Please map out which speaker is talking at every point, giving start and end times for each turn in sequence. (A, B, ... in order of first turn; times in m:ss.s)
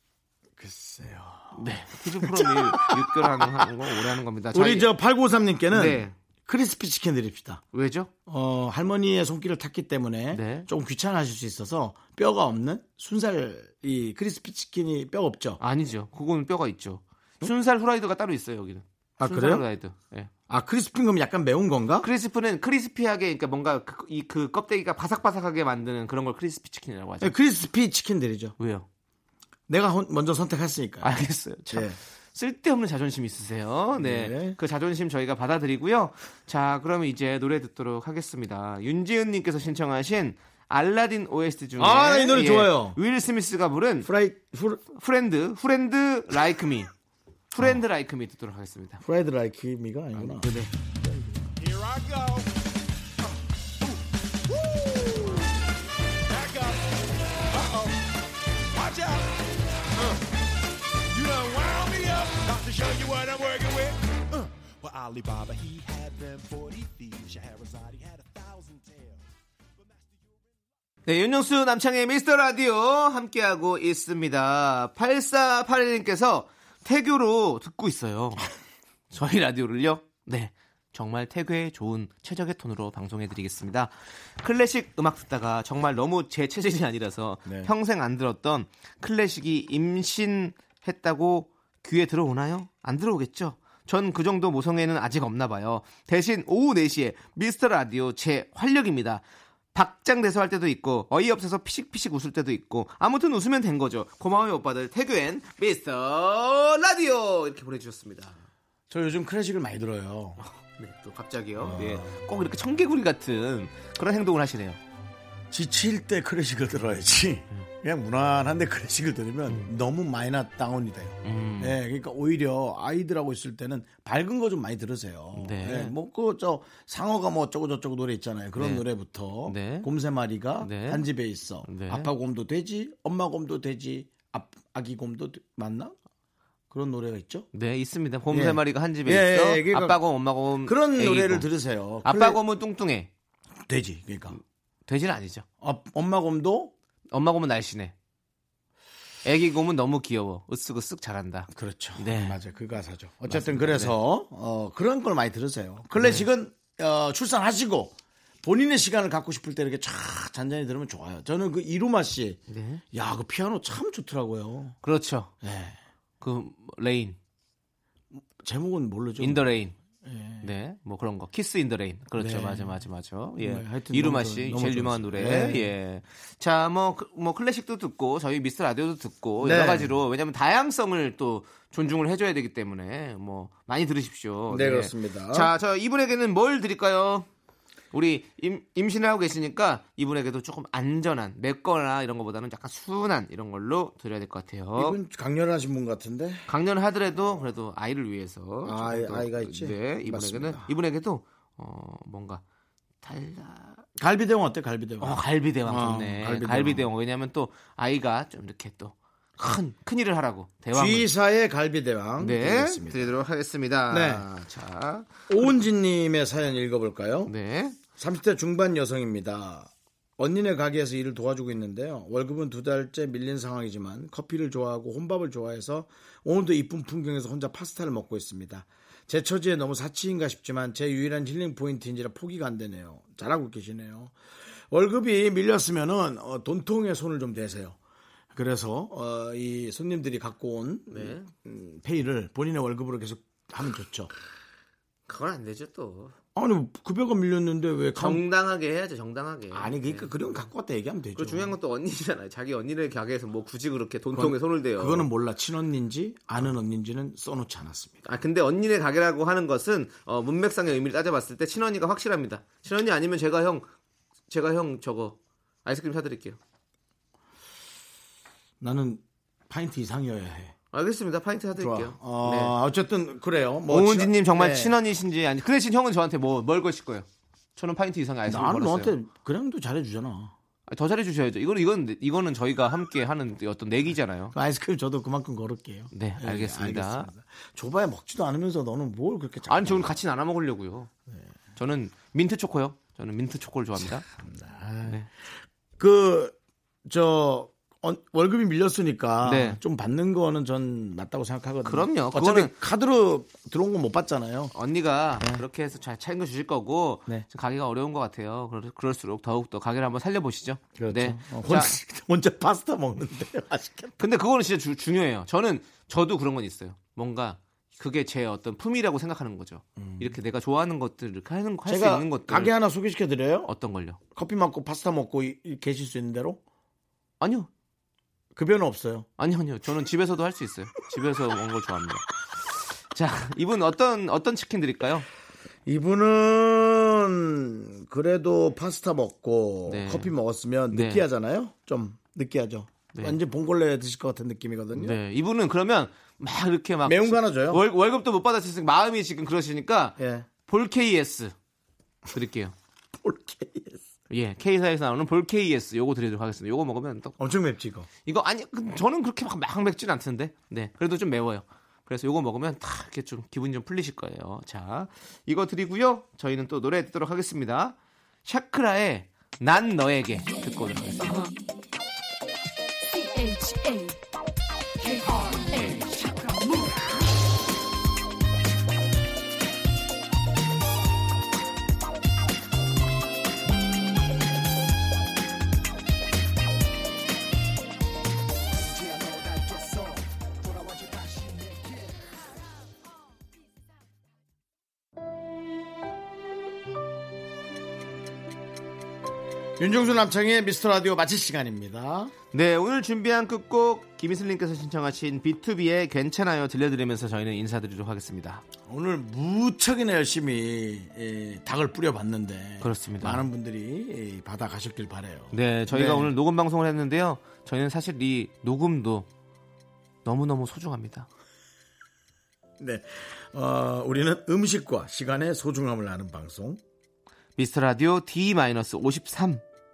0:00.6-0:01.6 A
0:01.5-0:04.9 B
0:02.2-0:07.6 A
0:05.7-0:06.1 B
0:07.7-0:08.1 B
0:08.3-0:15.6 A
0:10.3-0:10.7 B
0:15.6-0:20.3 B
0:19.2-0:19.6 A
0:20.5-0:22.1 A
0:22.0-0:27.3 B
0:27.2-0:28.5 A
0:28.6-0:28.9 B
0:29.7-0:31.1 A
0:31.0-0:44.1 B
0:31.7-0:32.0 A
0:34.0-0:34.6 A
0:41.8-0:43.0 A
0:44.0-0:44.8 A
0:44.9-0:46.9 B
0:47.5-0:49.0 B
0:49.0-0:51.5 A
0:50.1-0:50.7 B
0:51.6-0:52.5 C
0:54.5-0:55.5 C
0:56.3-0:58.1 C
0:58.7-0:59.4 C
1:00.0-1:00.2 C
1:01.1-1:09.3 C
1:09.9-1:10.4 C
1:11.0-1:18.5 B
1:19.1-1:39.2 B
1:27.4-1:27.7 A
1:39.7-1:48.4 B
1:48.9-1:50.4 A
1:50.4-1:54.8 B
1:51.6-1:52.1 A
1:55.5-2:16.0 A
1:59.5-1:59.7 B
2:01.2-2:01.8 B
2:05.3-2:05.9 B
2:08.6-2:08.8 B
2:09.4-2:09.9 B
2:10.6-2:11.0 B
2:11.6-2:12.1 B
2:16.7-2:17.5 A
2:17.5-2:21.5 B
2:18.3-2:20.0 A
2:20.6-2:22.4 A
2:22.0-2:23.1 B
2:23.7-2:24.4 A
2:24.8-2:25.4 B
2:25.6-2:26.7 A
2:27.1-2:27.9 B
2:29.2-2:32.4 B
2:31.5-2:42.4 A
2:33.3-2:33.9 B
2:36.0-2:36.3 B
2:42.5-2:42.8 B
2:42.9-2:44.8 A
2:44.8-2:45.3 B
2:45.4-2:45.8 A
2:46.2-2:47.2 B
2:48.1-2:50.5 A
2:49.2-2:49.8 B
2:50.4-3:07.3 B
2:52.2-2:52.8 A
2:53.4-2:55.7 A
2:59.4-3:00.0 A
3:04.5-3:05.5 A
3:07.9-3:15.0 B
3:14.8-3:16.5 A
3:16.5-3:22.4 B
3:18.6-3:20.7 A
3:23.0-3:23.8 B
3:24.0-3:26.9 A
3:25.0-3:31.1 B
3:30.7-3:33.1 A
3:32.2-3:35.5 B
3:33.9-3:34.2 A
3:35.3-3:37.3 A
3:37.3-3:37.8 B
3:38.0-3:54.1 A
3:54.7-3:57.8 A
3:58.3-4:04.1 A
4:00.9-4:01.3 B
4:05.1-4:06.1 B
4:06.3-4:08.2 A
4:08.0-4:10.4 B
4:09.5-4:11.6 A
4:11.1-4:15.1 B
4:14.1-4:18.0 A
4:18.0-4:23.7 B
4:24.3-4:26.4 B
4:28.6-4:30.5 A
4:30.7-4:32.5 B
4:31.6-4:34.8 A
4:33.7-4:37.0 B
4:37.6-4:38.9 B
4:38.2-4:40.3 A
4:40.7-4:44.3 B
4:44.3-4:50.0 A
4:45.9-4:47.1 B
4:49.5-4:50.9 B
4:51.6-4:54.0 B
4:54.1-4:55.0 A
4:55.8-5:04.5 A
4:59.2-4:59.6 B
5:01.6-5:02.6 B
5:04.5-5:11.7 B
5:10.8-5:14.0 A
5:14.0-5:22.5 B
5:19.8-5:20.1 A
5:21.6-5:23.5 A
5:23.4-5:24.0 B
5:24.1-5:26.4 A
5:27.2-5:27.5 B
5:28.3-5:29.1 A
5:29.2-5:35.0 B
5:35.6-5:45.0 A
5:39.7-5:40.1 B
5:40.7-5:41.0 B
5:44.8-5:51.3 B
5:46.8-5:47.6 A
5:50.0-5:50.3 A
5:52.1-5:52.5 B
5:52.9-5:53.8 A
5:54.1-5:57.2 B
5:57.2-5:57.9 A
5:58.0-6:11.2 B
6:28.9-6:30.0 C
6:30.7-6:31.6 C
6:39.6-6:42.1 A
6:42.3-6:48.4 B
6:48.7-6:56.1 A
6:52.6-6:53.3 B
6:55.3-6:59.1 B
7:00.0-7:01.1 B
7:02.6-7:06.6 A
7:07.4-7:09.4 B